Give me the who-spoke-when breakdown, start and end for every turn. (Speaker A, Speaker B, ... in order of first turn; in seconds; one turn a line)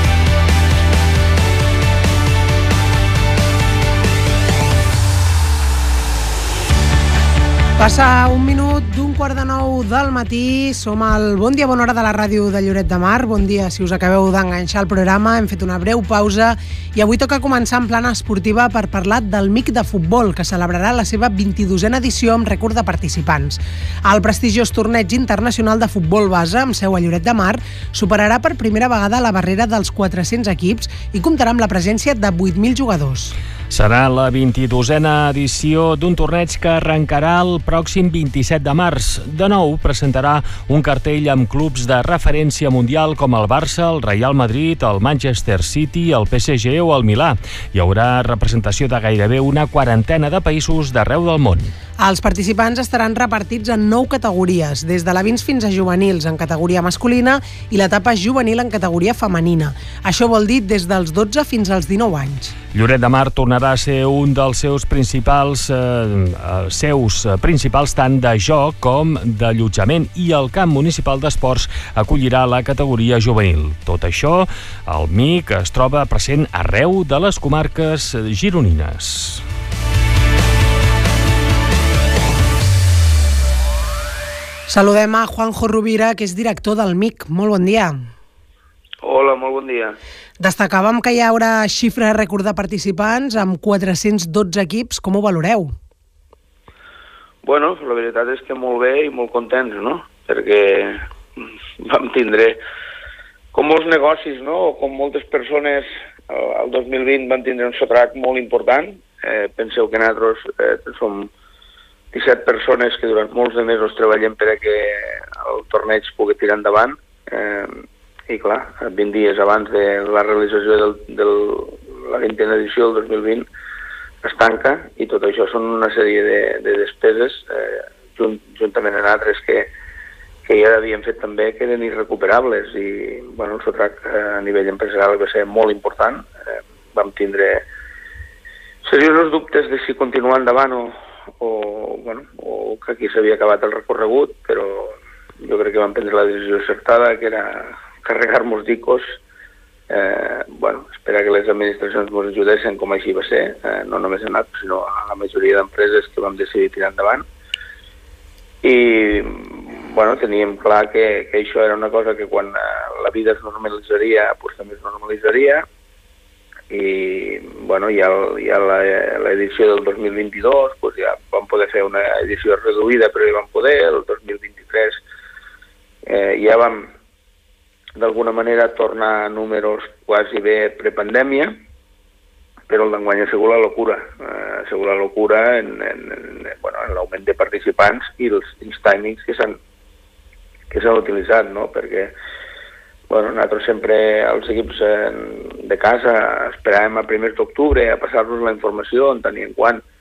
Speaker A: 7.8-33.3
Speaker B: 33.7-51.7
Speaker A: 52.0-62.5
Speaker B: 62.7-79.4
Speaker A: 84.7-87.9
Speaker C: 89.0-90.0
Speaker A: 90.4-95.7
Speaker C: 97.4-101.1
Speaker C: 101.8-102.6
Speaker C: 103.5-111.3
Speaker C: 112.1-123.5
Speaker C: 124.2-129.7
Speaker C: 130.4-137.6
Speaker C: 138.8-149.2
Speaker C: 149.9-157.2
Speaker C: 158.6-165.6
Speaker C: 166.7-175.0
Speaker C: 176.1-176.9
Speaker C: 177.9-181.6
Speaker C: 182.7-189.6
Speaker C: 190.7-192.1
Speaker C: 193.1-199.8